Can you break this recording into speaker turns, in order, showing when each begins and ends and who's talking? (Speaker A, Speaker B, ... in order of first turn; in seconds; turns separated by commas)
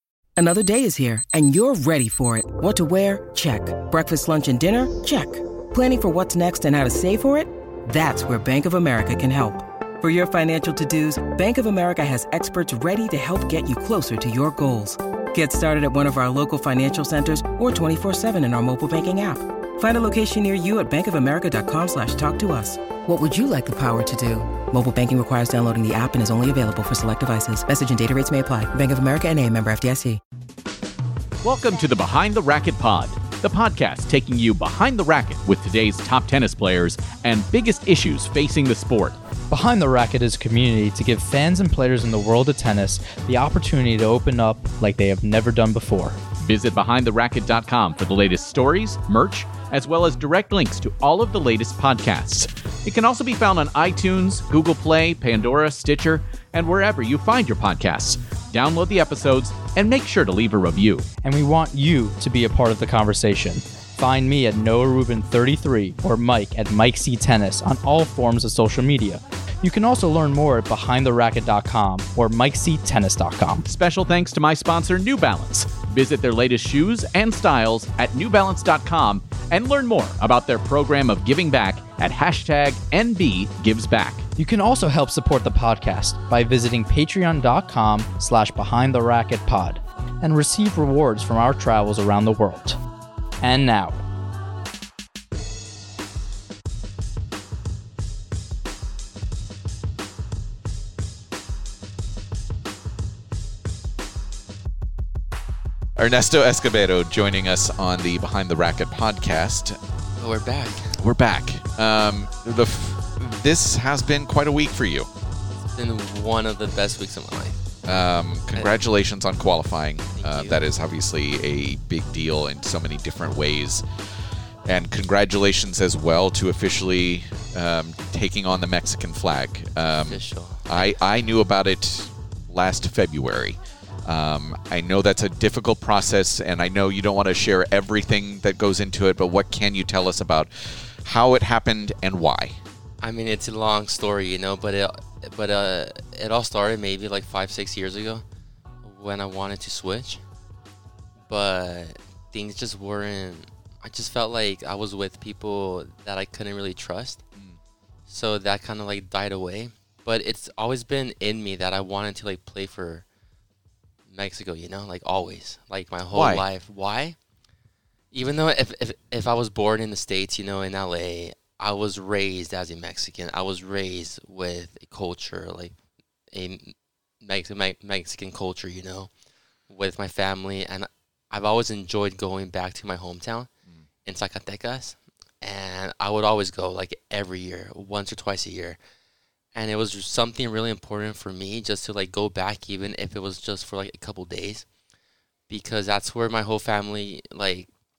Speaker A: 0.4-30.2, Speaker B: 31.4-39.2, Speaker C: 39.5-46.2, Speaker B: 46.4-61.0, Speaker C: 61.2-73.7, Speaker B: 73.7-84.3, Speaker C: 84.4-92.8, Speaker C: 93.4-94.0, Speaker D: 106.0-109.8, Speaker E: 110.2-111.0, Speaker D: 110.9-115.1, Speaker E: 115.6-117.6, Speaker D: 117.8-123.8, Speaker E: 120.2-120.6, Speaker D: 124.6-142.6, Speaker E: 130.0-130.8, Speaker E: 143.0-148.2, Speaker E: 148.8-150.2, Speaker E: 151.3-157.2, Speaker E: 158.1-163.1, Speaker E: 164.1-167.2, Speaker D: 166.1-166.4, Speaker E: 168.1-175.7, Speaker E: 176.3-179.1, Speaker E: 179.7-183.5, Speaker E: 184.0-188.8, Speaker E: 189.5-194.7, Speaker E: 195.5-197.7